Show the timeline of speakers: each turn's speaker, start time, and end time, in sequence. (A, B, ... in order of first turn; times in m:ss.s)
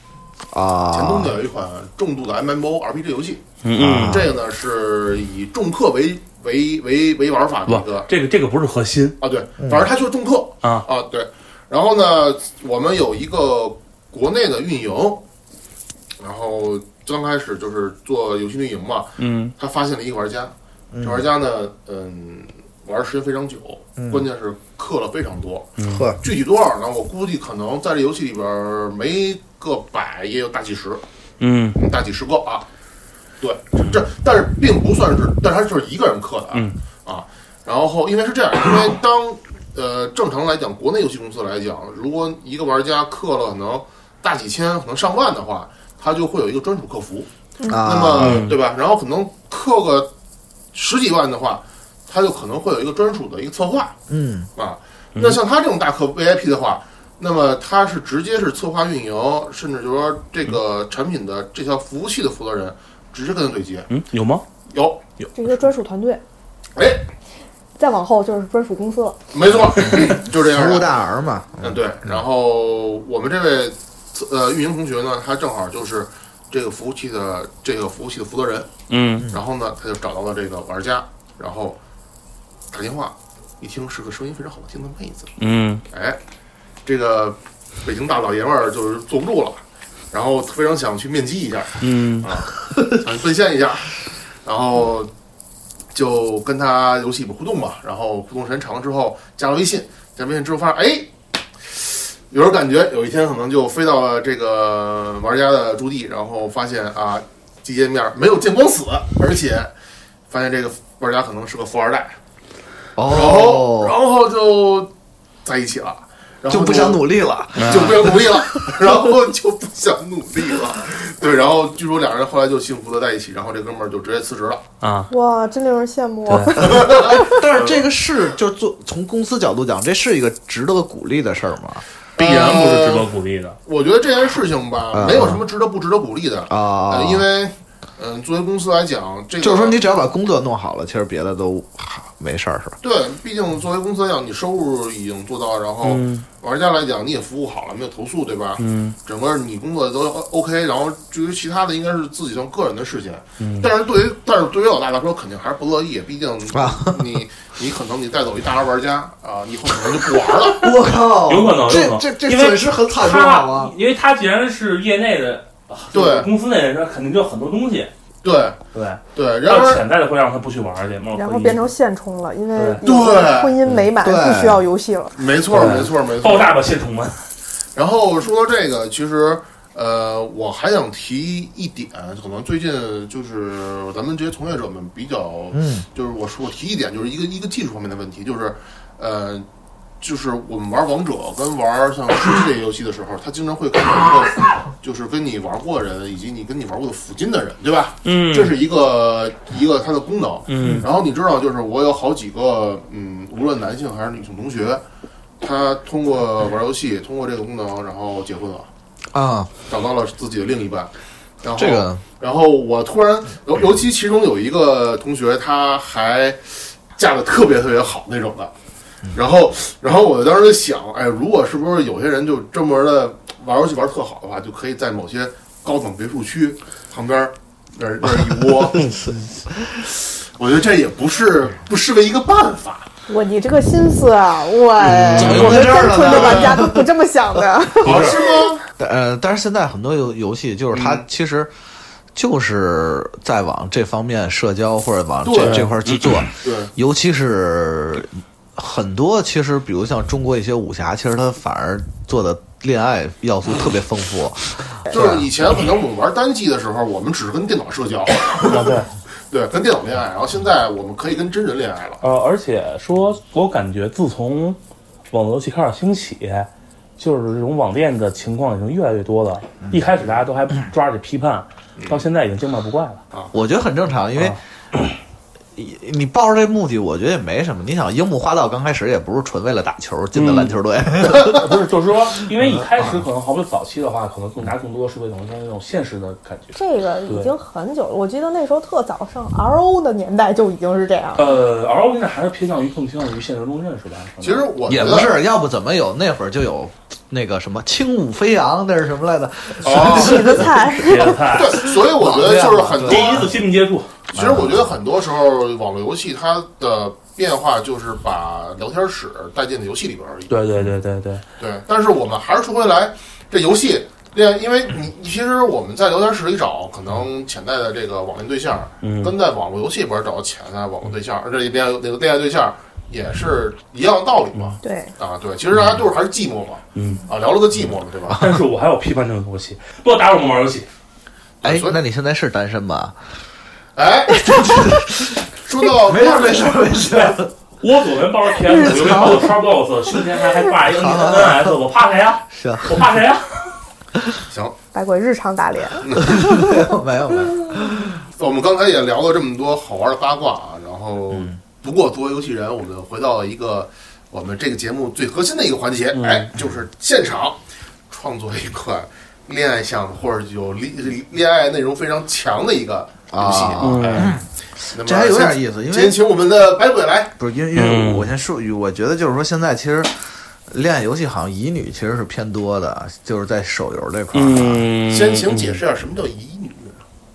0:00.5-0:01.3 A
0:00.9-0:03.5 B
0:03.6-0:04.3 C
0:03.8-0:04.3 A
0:04.1-0:08.1 B
0:07.7-0:09.2 C
0:09.2-0:15.2 B
0:09.6-0:09.9 A
0:16.2-0:31.0 B
0:19.2-0:19.5 C
0:20.9-0:21.3 A
0:24.0-0:24.2 A
0:25.8-0:26.1 C
0:25.9-0:26.2 A
0:31.4-0:31.8 C
0:31.8-0:32.6 B
0:33.4-0:50.1 B
0:33.8-0:34.0 C
0:36.5-0:36.8 C
0:47.6-0:47.9 D
0:47.7-0:48.5 A
0:48.2-0:48.6 C
0:50.7-0:54.0 B
0:54.1-0:54.5 A
0:54.6-1:03.9 B
0:55.1-0:55.4 C
1:03.9-1:04.4 C
1:04.7-1:05.0 B
1:05.3-1:06.2 D
1:06.7-1:07.0 B
1:07.8-1:09.2 D
1:09.3-1:10.9 B
1:10.3-1:11.8 A
1:11.6-1:18.7 B
1:18.9-1:19.3 C
1:19.3-1:21.8 B
1:22.7-1:25.3 B
1:25.4-1:25.8 C
1:25.9-1:26.2 B
1:26.8-1:35.1 B
1:31.8-1:32.3 C
1:35.9-1:49.7 B
1:50.3-1:52.2 B
1:53.0-1:54.0 A
1:53.1-1:54.9 B
1:55.4-1:57.0 B
1:56.5-1:59.0 A
1:57.5-1:58.1 C
1:57.6-2:04.6 B
2:04.8-2:05.1 C
2:05.1-2:07.4 D
2:06.3-2:06.8 C
2:06.6-2:11.8 A
2:06.6-2:07.9 B
2:12.2-2:13.1 B
2:12.2-2:13.6 C
2:13.6-2:19.8 B
2:14.9-2:15.4 A
2:16.5-2:17.2 A
2:19.4-2:22.8 A
2:22.8-2:40.7 B
2:25.8-2:26.3 C
2:28.6-2:29.0 C
2:33.4-2:33.7 C
2:36.5-2:37.2 A
2:40.5-2:43.7 A
2:41.2-2:47.9 C
2:45.9-2:46.3 B
2:48.2-2:48.6 B
2:48.7-2:51.7 C
2:49.1-2:49.8 B
2:51.1-2:55.2 D
2:52.6-2:52.8 C
2:52.8-2:53.6 B
2:54.0-2:54.6 A
2:55.1-2:56.6 B
2:55.5-2:57.2 C
2:57.7-3:09.4 B
3:05.5-3:05.8 A
3:10.0-3:24.8 B
3:18.0-3:18.5 C
3:20.5-3:20.9 C
3:25.4-3:28.7 B
3:29.1-3:29.5 A
3:29.7-3:38.5 B
3:31.5-3:32.0 A
3:39.1-3:49.0 B
3:49.9-3:52.9 B
3:53.1-3:58.6 D
3:55.0-3:55.7 C
3:55.0-3:56.5 B
3:55.1-3:56.9 A
3:57.8-3:58.6 B
3:57.8-3:58.2 C
3:58.8-4:01.5 A
4:00.7-4:01.0 B
4:02.1-4:15.3 A
4:05.2-4:05.7 B
4:05.4-4:06.3 C
4:06.4-4:06.7 B
4:14.9-4:18.8 B
4:18.4-4:18.9 C
4:19.3-4:22.0 B
4:22.0-4:24.6 C
4:25.1-4:33.0 C
4:31.8-4:32.0 B
4:33.3-4:34.4 A
4:35.6-4:41.5 A
4:40.1-4:40.5 C
4:41.1-4:47.3 C
4:42.4-4:42.9 A
4:46.5-4:51.3 D
4:51.2-4:54.5 C
4:54.2-4:55.2 B
4:54.6-5:03.3 A
4:59.6-5:00.5 B
4:59.8-5:01.2 D
5:00.8-5:01.6 C
5:01.2-5:03.3 B
5:02.7-5:03.9 C
5:04.1-5:10.3 B
5:04.1-5:04.7 A
5:10.3-5:11.2 C
5:11.4-5:28.3 B
5:18.8-5:19.2 C
5:24.6-5:24.9 D
5:26.7-5:27.1 C
5:28.1-5:28.4 A
5:28.1-5:30.7 C
5:31.4-5:31.8 B
5:31.4-5:33.0 A
5:33.8-5:36.7 B
5:34.3-5:35.2 A
5:35.7-5:37.3 A
5:37.6-5:43.5 C
5:38.5-5:39.3 A
5:38.6-5:39.1 D
5:40.6-5:41.6 A
5:42.3-5:42.9 A
5:44.3-5:44.5 B
5:44.7-5:46.7 D
5:45.8-5:46.2 B
5:45.9-5:48.0 A
5:48.2-6:04.2 B
5:51.1-5:51.4 A
5:55.9-5:56.3 C
6:03.1-6:06.0 A
6:03.6-6:04.1 C
6:04.7-6:07.1 B
6:07.2-6:09.9 A
6:07.5-6:08.1 C
6:10.5-6:14.6 A
6:14.1-6:15.6 C
6:14.9-6:16.8 B